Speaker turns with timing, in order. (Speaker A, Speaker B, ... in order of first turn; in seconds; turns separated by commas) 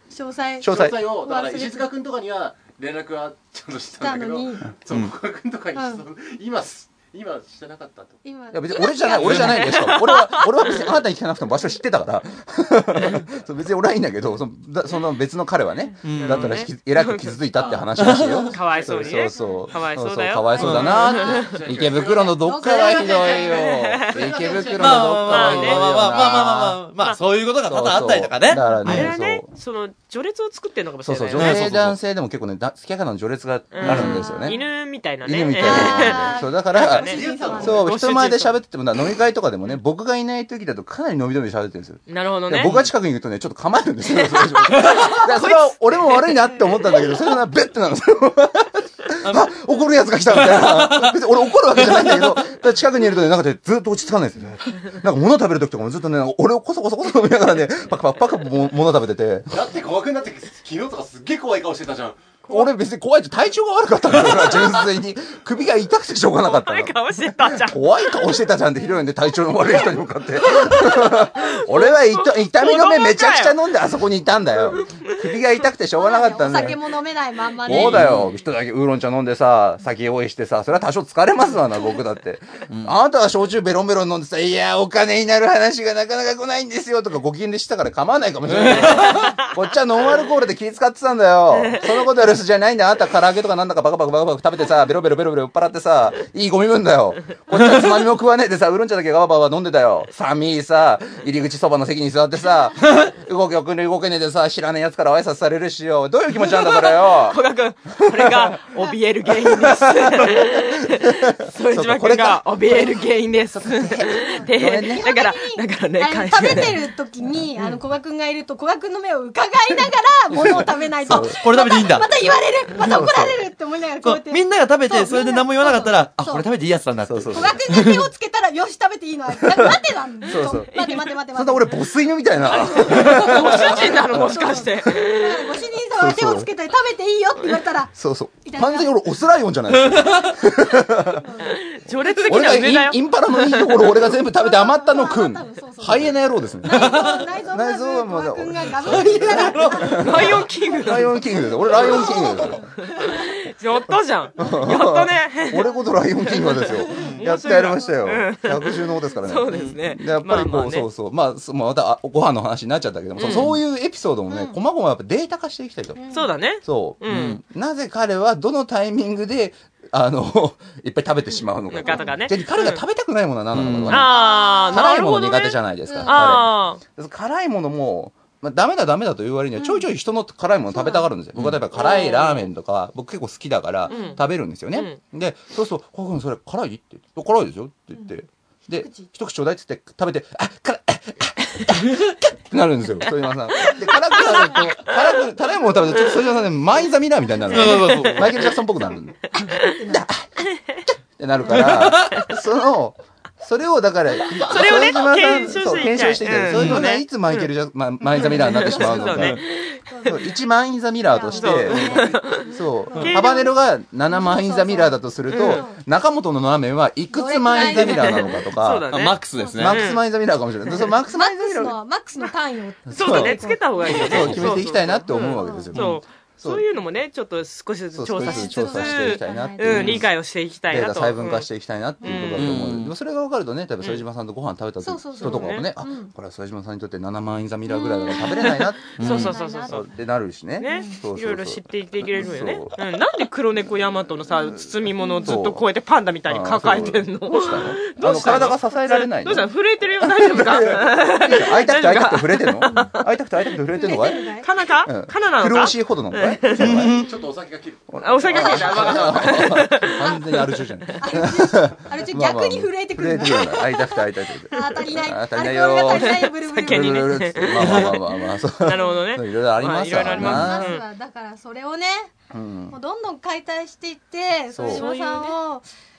Speaker A: 0.1-1.9, Speaker B: 0.6-1.0, Speaker C: 0.6-8.2, Speaker A: 4.0-4.7, Speaker A: 5.8-6.0, Speaker A: 8.2-9.2, Speaker B: 8.5-26.8, Speaker D: 9.1-10.9, Speaker E: 9.2-9.7, Speaker E: 16.0-16.6, Speaker D: 16.1-17.5, Speaker C: 17.6-19.3, Speaker E: 18.0-18.4, Speaker D: 18.2-21.6, Speaker A: 19.3-19.7, Speaker A: 20.5-23.5, Speaker E: 20.6-20.9, Speaker C: 20.8-25.1, Speaker D: 23.5-24.3, Speaker A: 24.3-24.6, Speaker E: 24.8-29.1, Speaker D: 25.2-27.2, Speaker B: 27.7-29.5, Speaker D: 28.8-31.7, Speaker B: 31.0-34.6, Speaker E: 31.4-32.0, Speaker D: 33.7-38.6, Speaker E: 33.8-34.2, Speaker A: 34.0-34.6, Speaker B: 35.2-59.6, Speaker A: 35.6-37.9, Speaker C: 36.8-37.9, Speaker D: 42.1-42.8, Speaker E: 42.6-42.9, Speaker D: 44.1-47.1, Speaker E: 49.2-49.5, Speaker E: 50.3-51.2, Speaker E: 51.8-52.4, Speaker C: 59.5-62.4, Speaker B: 62.5-76.8, Speaker D: 66.4-68.2, Speaker D: 70.4-73.6, Speaker D: 74.8-75.2, Speaker A: 75.9-78.0, Speaker B: 77.6-108.6, Speaker E: 77.7-78.3, Speaker E: 82.7-82.9, Speaker E: 88.5-89.3, Speaker D: 88.9-89.5, Speaker D: 91.5-92.0, Speaker D: 106.4-116.7, Speaker B: 109.3-115.1, Speaker A: 114.2-126.5, Speaker B: 120.3-121.4, Speaker E: 121.1-122.1, Speaker B: 122.8-123.4, Speaker E: 124.0-128.1, Speaker B: 127.0-127.6, Speaker A: 127.3-131.8, Speaker B: 129.4-130.7, Speaker D: 130.7-131.1, Speaker B: 131.3-135.1, Speaker D: 132.5-135.6, Speaker A: 132.6-137.9, Speaker B: 135.9-136.5, Speaker B: 137.9-141.2, Speaker A: 138.4-138.9, Speaker E: 139.8-140.2, Speaker A: 140.1-141.6, Speaker D: 141.4-144.0, Speaker B: 142.2-152.7, Speaker A: 144.2-150.7, Speaker E: 148.8-150.3, Speaker D: 150.0-151.3, Speaker A: 151.4-153.3, Speaker D: 151.8-160.9, Speaker B: 154.4-166.0, Speaker A: 156.9-157.2, Speaker E: 157.0-157.3, Speaker E: 159.5-159.8, Speaker D: 163.2-163.5, Speaker E: 163.2-163.6, Speaker A: 164.3-164.6, Speaker A: 165.9-166.3, Speaker D: 166.1-167.4, Speaker B: 166.6-174.1, Speaker E: 167.1-167.4, Speaker D: 171.7-172.8, Speaker A: 171.8-172.2, Speaker E: 173.5-174.1, Speaker D: 173.9-176.8, Speaker A: 173.9-175.2, Speaker B: 174.7-199.4, Speaker A: 175.9-176.5, Speaker A: 179.6-179.8, Speaker A: 180.7-181.1, Speaker D: 181.8-182.5, Speaker A: 183.9-184.2, Speaker D: 183.9-185.0, Speaker A: 188.7-189.1, Speaker D: 193.7-194.9, Speaker E: 197.5-198.3, Speaker D: 197.5-198.5, Speaker A: 199.3-200.1, Speaker B: 199.9-209.4, Speaker E: 201.5-202.3, Speaker E: 204.3-204.6, Speaker D: 204.4-207.5, Speaker E: 206.5-206.9, Speaker D: 208.1-210.2, Speaker A: 208.2-210.4, Speaker E: 208.8-209.3, Speaker B: 210.1-218.9, Speaker A: 211.1-213.5, Speaker D: 211.3-213.4, Speaker E: 211.7-212.1, Speaker A: 214.1-215.8, Speaker D: 215.3-215.7, Speaker A: 217.1-218.4, Speaker D: 217.6-220.0, Speaker E: 218.9-219.9, Speaker A: 219.4-219.7, Speaker B: 219.5-221.8, Speaker A: 221.1-224.5, Speaker B: 222.9-226.6, Speaker D: 222.9-231.5, Speaker E: 224.2-224.5, Speaker A: 225.4-225.7, Speaker E: 225.7-226.0, Speaker B: 227.9-230.1, Speaker A: 228.2-230.0, Speaker E: 229.7-230.0, Speaker B: 230.7-239.0, Speaker D: 232.0-232.6, Speaker E: 232.4-232.9, Speaker A: 234.8-236.1, Speaker D: 235.2-235.7, Speaker D: 237.7-239.8, Speaker A: 238.1-239.8, Speaker E: 239.0-239.3, Speaker B: 239.6-242.8, Speaker D: 240.6-253.0, Speaker A: 240.6-241.0, Speaker A: 245.0-245.4, Speaker B: 245.2-245.6, Speaker B: 246.3-257.0, Speaker A: 253.7-254.5, Speaker D: 253.8-256.8, Speaker E: 256.6-257.1, Speaker C: 256.8-259.4, Speaker B: 257.9-270.8, Speaker D: 258.0-261.0, Speaker A: 261.0-267.1, Speaker D: 265.9-268.0, Speaker E: 267.6-267.9, Speaker D: 268.6-270.8, Speaker A: 268.7-269.1, Speaker A: 270.0-272.1, Speaker B: 272.3-272.8, Speaker A: 272.7-275.6, Speaker B: 274.5-274.9, Speaker D: 274.6-275.4